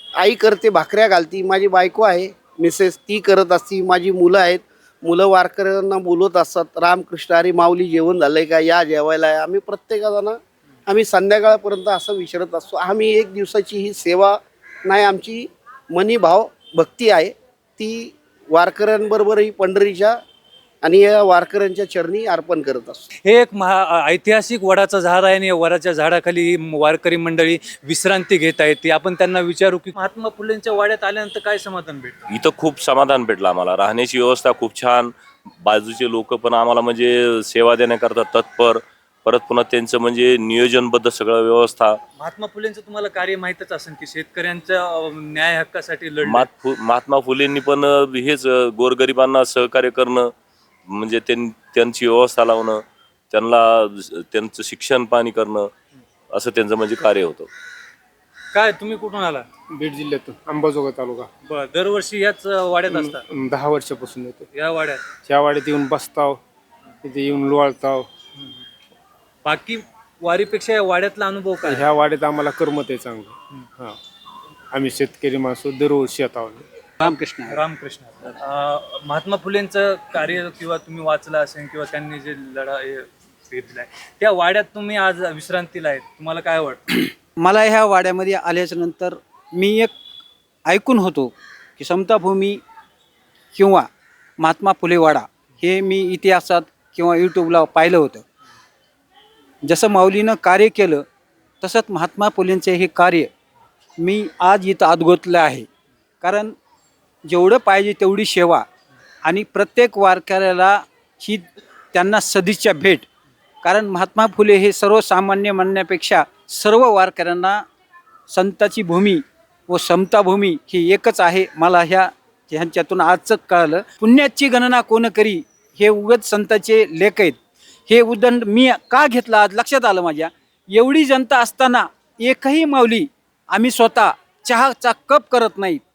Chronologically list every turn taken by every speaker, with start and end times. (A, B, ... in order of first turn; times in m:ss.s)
0:00.2-0:20.2 A
0:20.8-0:23.1 A
0:23.2-0:32.4 B
0:32.3-0:42.0 C
0:42.2-0:46.5 B
0:46.2-0:50.3 C
0:50.9-0:55.7 C
0:56.3-0:57.5 C
0:58.5-0:59.4 B
0:59.8-1:01.3 D
1:01.5-1:03.2 B
1:03.0-1:04.4 D
1:04.5-1:05.0 B
1:05.3-1:06.4 D
1:07.0-1:08.1 D
1:09.4-1:11.9 B
1:11.7-1:14.0 D
1:14.7-1:16.6 D
1:17.0-1:17.6 E
1:17.0-1:26.9 B
1:27.0-1:29.9 E
1:30.6-1:32.6 E
1:33.5-1:33.9 E
1:34.4-1:38.2 E
1:39.6-1:41.0 E
1:41.6-1:43.3 E
1:44.0-1:45.6 E
1:46.2-1:46.5 E
1:47.2-1:48.6 E
1:49.2-1:53.0 E
1:53.6-1:57.6 E
1:58.3-2:15.8 E